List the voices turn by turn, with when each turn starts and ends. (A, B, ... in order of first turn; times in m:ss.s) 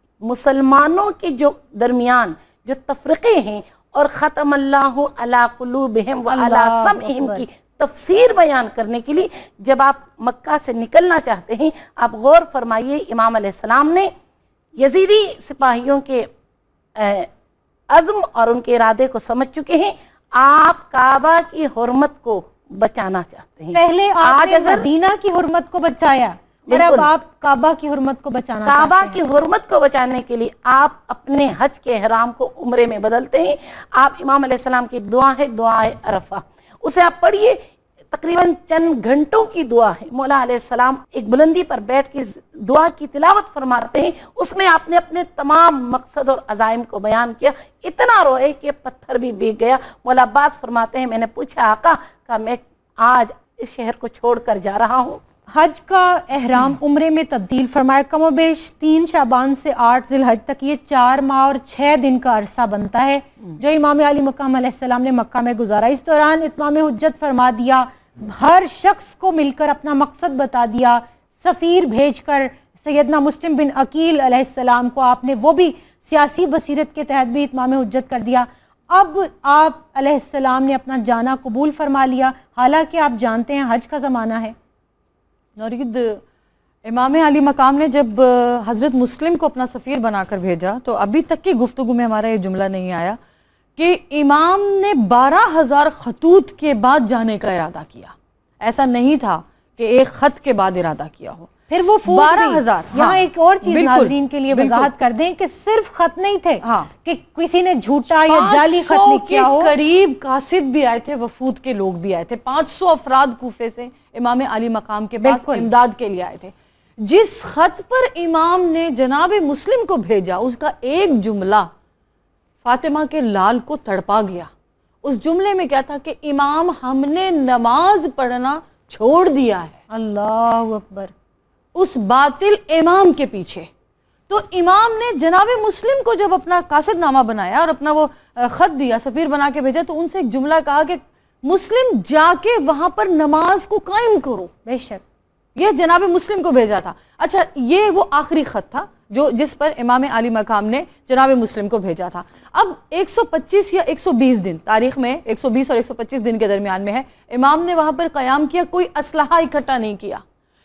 0:00.2-0:14.1 A
0:06.3-0:07.4 B
0:14.8-0:16.3 A
0:17.0-0:17.3 A
0:17.9-0:24.9 A
0:23.7-0:29.2 B
0:26.7-0:27.1 A
0:28.7-0:55.2 A
0:55.5-1:24.6 B
1:25.6-1:26.2 C
1:26.8-1:33.2 C
1:33.8-1:41.5 C
1:41.7-1:49.7 B
1:42.0-1:44.9 C
1:46.6-1:46.9 C
1:48.2-2:01.7 C
1:55.2-1:55.7 B
2:02.6-2:04.5 C
2:05.0-2:09.8 C
2:09.9-2:11.1 B
2:11.8-2:13.7 C
2:14.3-2:24.5 C
2:24.7-2:25.0 B
2:25.6-2:40.2 C